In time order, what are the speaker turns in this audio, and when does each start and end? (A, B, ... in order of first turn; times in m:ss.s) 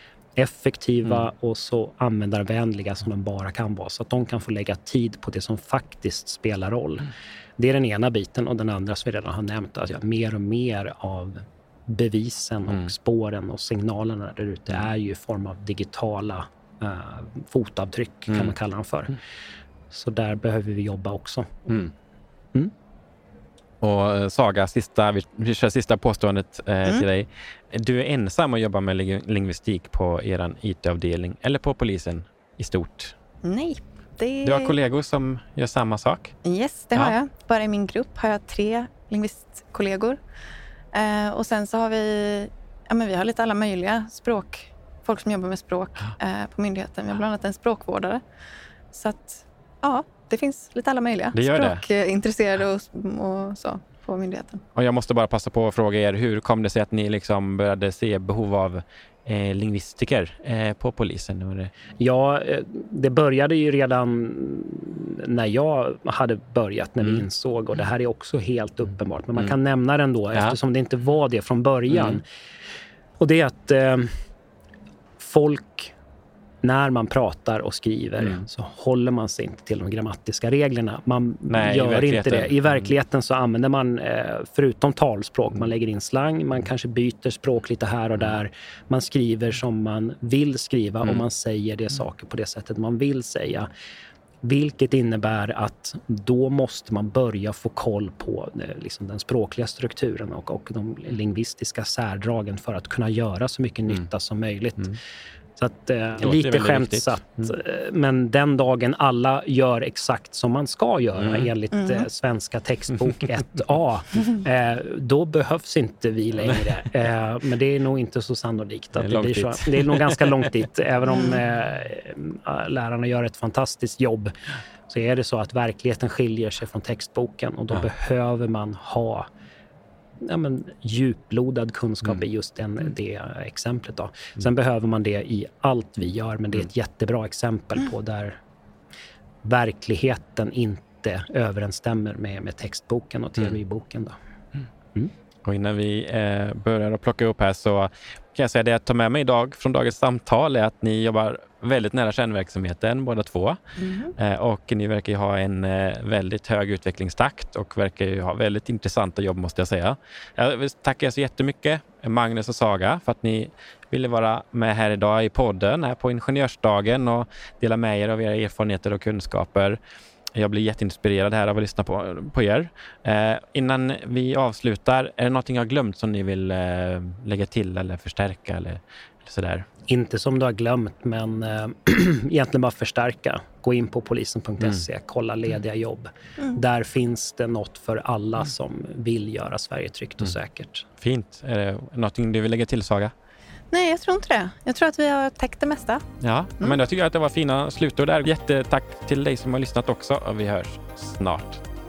0:00.4-0:19.2 A
0:19.9-0:21.6 A
0:21.7-0:21.9 B
0:23.8-0:33.2 B
0:33.4-0:34.7 C
0:34.4-0:36.3 B
0:36.4-0:40.2 C
0:40.9-0:48.2 C
0:48.9-0:54.6 C
0:51.3-0:51.8 B
0:54.7-1:01.7 B
1:02.0-1:12.2 A
1:11.9-1:12.2 B
1:13.2-1:14.2 A
1:15.2-1:15.9 A
1:16.6-1:33.7 A
1:21.5-1:22.6 B
1:34.4-1:45.0 A
1:45.6-2:04.3 A
1:46.2-1:47.5 B
1:51.2-1:51.5 B
1:51.7-1:52.0 C
1:59.0-2:00.4 B
2:04.9-2:09.3 A
2:10.2-2:18.4 A
2:19.4-2:24.2 A
2:25.4-2:33.6 B
2:33.8-2:34.1 C
2:34.2-2:49.8 B
2:50.3-2:59.7 B
2:59.9-3:10.9 A
3:11.0-3:13.1 B
3:13.7-3:16.0 C
3:16.2-3:21.6 B